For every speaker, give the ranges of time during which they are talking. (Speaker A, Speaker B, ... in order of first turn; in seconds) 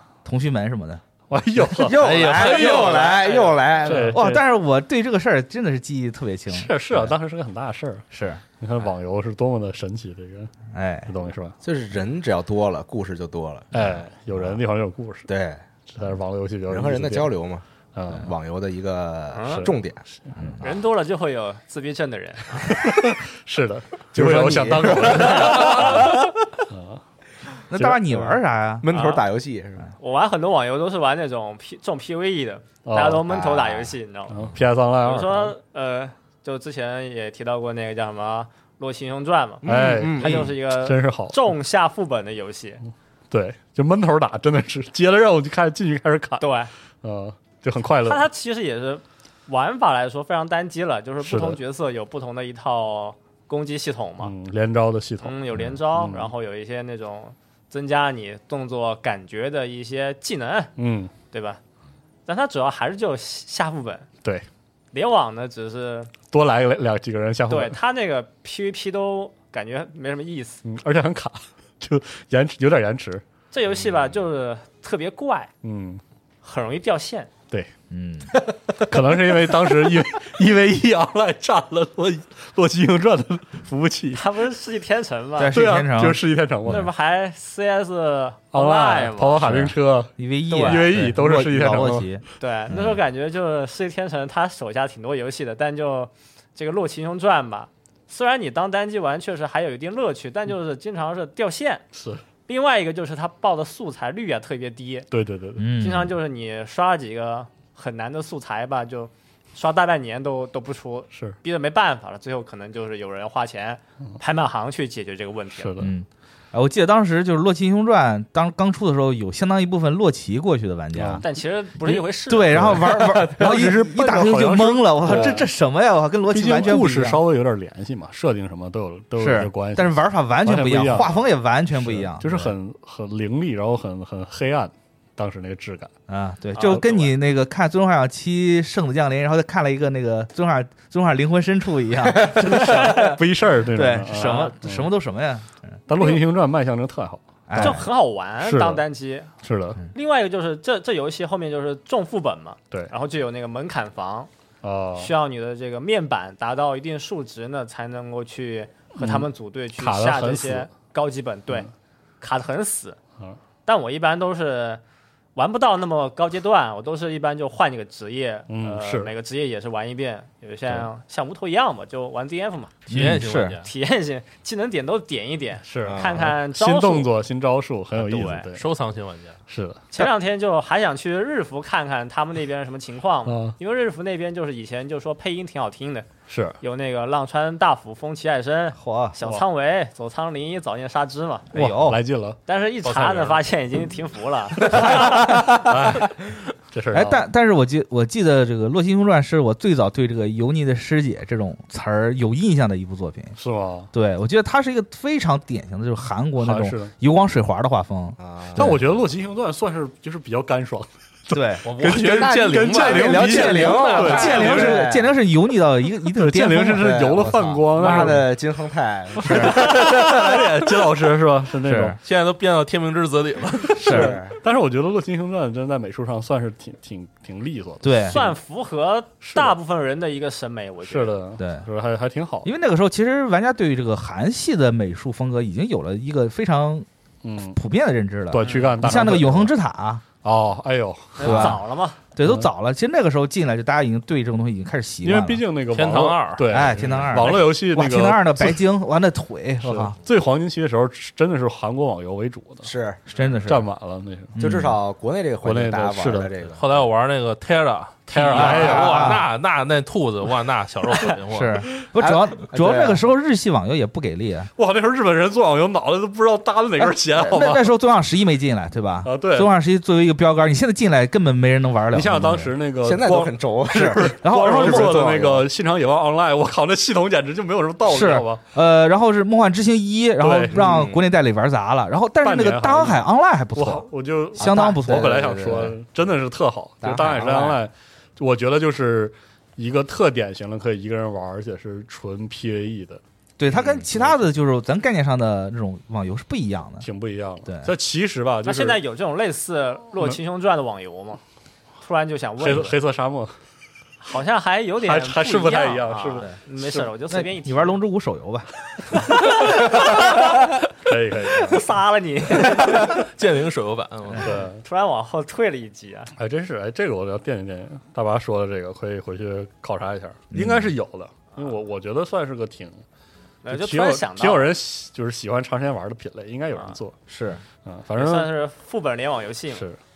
Speaker A: 0.2-1.1, 2.1-2.5, 4.1-7.1, 8.1-8.4, 10.7-11.1, 20.4-20.6, 27.7-28.9, 77.9-78.3, 85.4-86.8, 89.4-93.0, 105.6-106.1, 115.8-121.2, 121.9-127.2, 129.2-132.5, 136.1-143.2, 143.7-145.7, 147.5-147.8, 172.9-173.6, 188.7-189.2, 191.5-192.0, 196.9-203.3, 203.9-208.8, 211.3-211.6, 214.1-217.3, 217.8-218.2, 219.2-219.7, 221.6-222.0, 223.8-224.2, 227.8-228.3, 231.4-231.7, 232.4-236.9, 237.5-240.1, 241.2-241.6, 242.2-245.4, 246.5-250.0, 253.1-253.7, 254.3-254.8, 258.3-259.3, 261.3-264.5, 266.8-272.5, 274.2-275.1, 277.8-285.4, 293.4-296.9, 297.4-297.7, 307.1-308.5, 320.3-320.7, 327.1-327.4
Speaker B: 1.3-2.0, 3.8-4.4, 6.5-8.1, 8.6-10.5, 11.1-11.6, 13.7-15.3, 15.9-17.3, 17.9-18.3, 19.5-20.5, 22.6-26.1, 26.7-27.0, 27.7-28.4, 32.8-33.3, 34.3-35.5, 39.6-41.4, 43.3-46.5, 47.0-48.3, 51.2-51.6, 54.2-56.3, 60.8-61.1, 66.3-67.8, 70.6-73.2, 75.6-76.0, 78.3-84.3, 85.5-86.9, 88.5-92.1, 101.9-102.2, 105.1-105.7, 111.1-111.4, 115.6-115.9, 120.9-121.3, 122.5-125.5, 126.3-131.2, 131.8-135.9, 142.4-144.9, 145.9-147.8, 148.4-148.8, 149.4-149.8, 154.6-155.1, 159.0-160.7, 168.5-169.1, 175.7-178.7, 179.5-180.1, 183.2-183.6, 186.3-186.6, 191.5-192.4, 194.6-197.2, 203.4-203.9, 206.4-206.9, 208.6-214.8, 216.1-218.3, 219.2-222.0, 223.7-228.3, 229.2-229.6, 230.8-232.5, 237.2-237.6, 238.3-239.5, 240.1-241.6, 245.0-248.6, 249.6-252.7, 253.4-254.4, 255.4-256.3, 258.1-259.2, 264.6-267.7, 269.0-269.5, 271.9-278.4, 280.2-280.8, 282.2-293.0, 296.8-298.8, 302.4-303.4, 304.8-306.9, 308.9-309.7, 310.8-311.6, 314.2-314.6, 316.1-322.8, 323.5-326.9, 327.6-328.3, 329.5-329.8
Speaker C: 1.7-4.2, 11.6-13.9, 15.3-15.7, 16.7-20.0, 24.1-26.2, 28.8-29.9, 33.3-33.9, 39.6-40.5, 73.7-74.2, 142.1-142.6, 175.8-176.3, 208.2-209.0, 211.9-215.1, 216.7-220.7, 223.9-224.4, 246.7-247.3, 252.6-253.0, 254.4-256.8, 258.4-258.8, 262.0-263.0, 272.8-275.5, 280.5-281.1, 284.4-285.8, 286.8-287.6, 293.5-293.9
Speaker D: 2.0-3.6, 172.9-173.7, 178.6-179.4, 192.8-193.4, 211.6-214.8, 222.0-224.0, 245.7-246.7, 256.6-261.6, 312.4-314.3
Speaker E: 2.5-3.6, 19.3-19.7, 20.6-22.9, 28.9-29.2, 30.0-34.3, 35.0-42.8, 46.4-46.7, 48.0-54.3, 55.2-60.7, 61.3-61.6, 62.3-64.1, 64.9-66.1, 67.5-70.6, 73.5-75.5, 76.4-77.3, 84.1-85.6, 86.7-89.7, 90.5-90.9, 92.4-101.8, 102.5-105.1, 105.8-115.7, 121.2-123.3, 136.6-137.1, 144.1-144.5, 147.6-149.3, 149.9-154.3, 154.9-161.7, 162.2-163.0, 163.7-164.8, 165.3-172.8, 173.6-177.1, 177.9-178.5, 179.9-186.1, 186.6-191.5, 192.4-195.4, 228.1-231.2, 238.4-238.7, 241.2-242.0, 298.4-301.2, 301.8-302.8, 304.0-307.7, 309.6-310.2, 311.4-312.9, 314.6-316.1, 323.4-324.5, 327.9-329.6